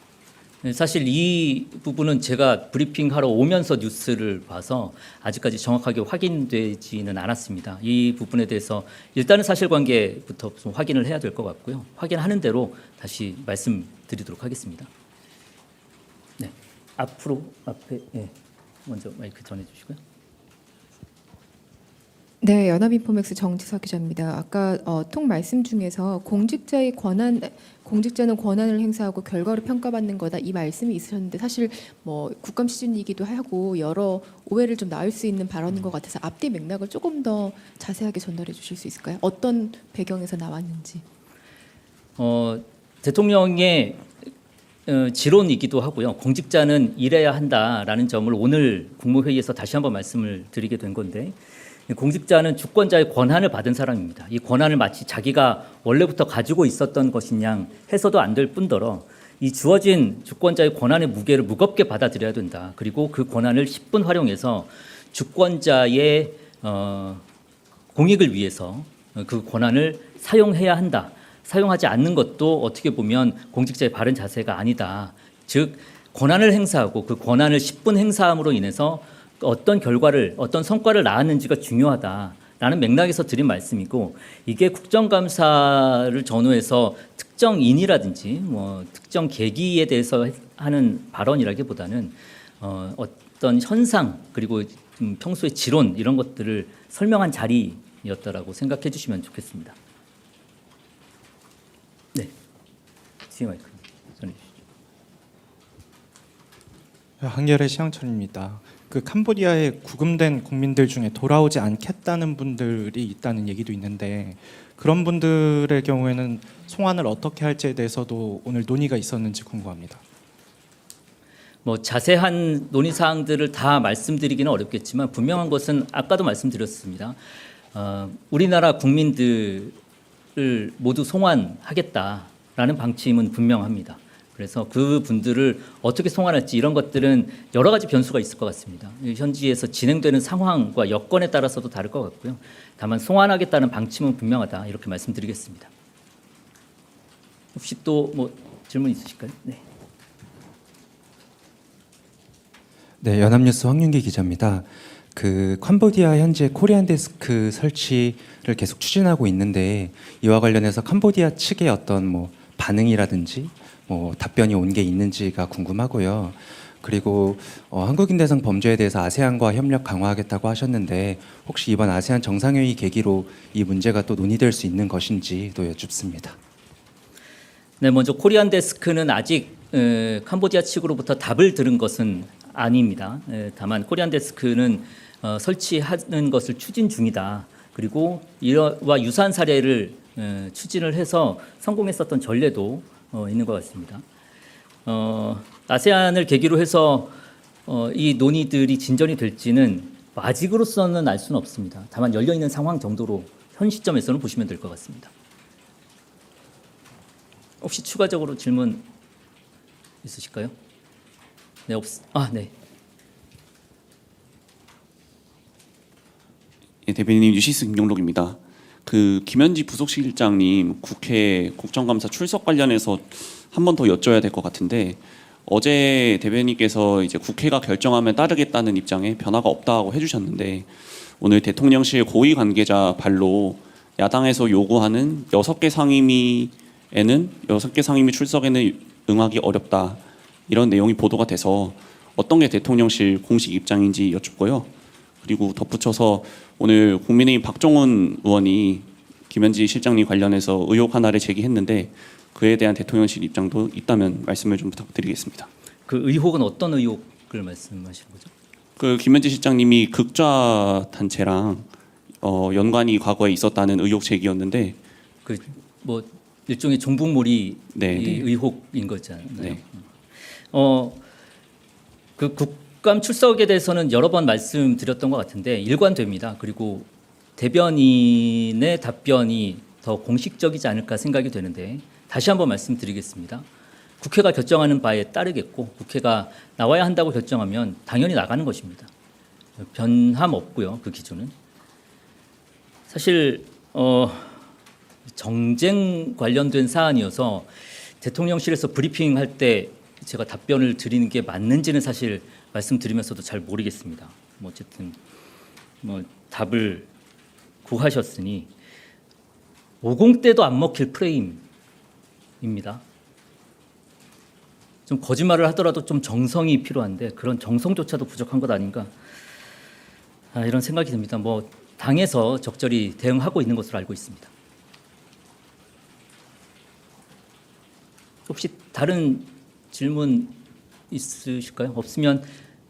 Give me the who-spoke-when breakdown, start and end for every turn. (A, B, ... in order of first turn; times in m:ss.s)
0:00.6-0:14.9 A
0:16.4-0:18.4 A
0:18.9-0:20.0 A
0:22.4-0:41.0 B
0:42.2-0:44.1 A
0:44.9-0:51.4 A
0:51.9-1:07.2 A
1:07.9-1:39.8 A
1:43.3-1:44.5 A
1:47.2-2:00.0 C
2:01.6-2:07.2 A
2:07.7-2:09.8 A
2:10.4-2:25.7 A
2:27.5-2:29.6 A
2:33.0-2:56.4 D
2:57.8-3:14.0 A
3:14.9-3:17.1 A
3:17.6-3:25.1 A
3:27.6-3:28.8 A
3:30.0-3:30.5 A
3:31.7-3:32.5 A
3:36.9-4:04.7 E
4:05.2-4:15.5 E
4:15.9-4:18.3 A
4:18.8-4:21.7 E
4:22.2-4:24.8 E
4:25.2-4:29.8 A
4:27.8-4:28.3 E
4:30.4-4:31.0 A
4:32.2-4:43.5 A
4:44.0-4:48.9 A
4:49.6-4:51.3 A
4:52.9-4:54.4 A
4:55.1-5:05.0 A
5:05.8-5:06.9 A
5:07.6-5:08.5 A
5:09.8-5:11.4 A
5:12.4-5:12.8 A
5:14.9-5:18.9 A
5:20.3-5:24.3 A
5:28.3-5:30.4 A
5:30.9-5:32.3 A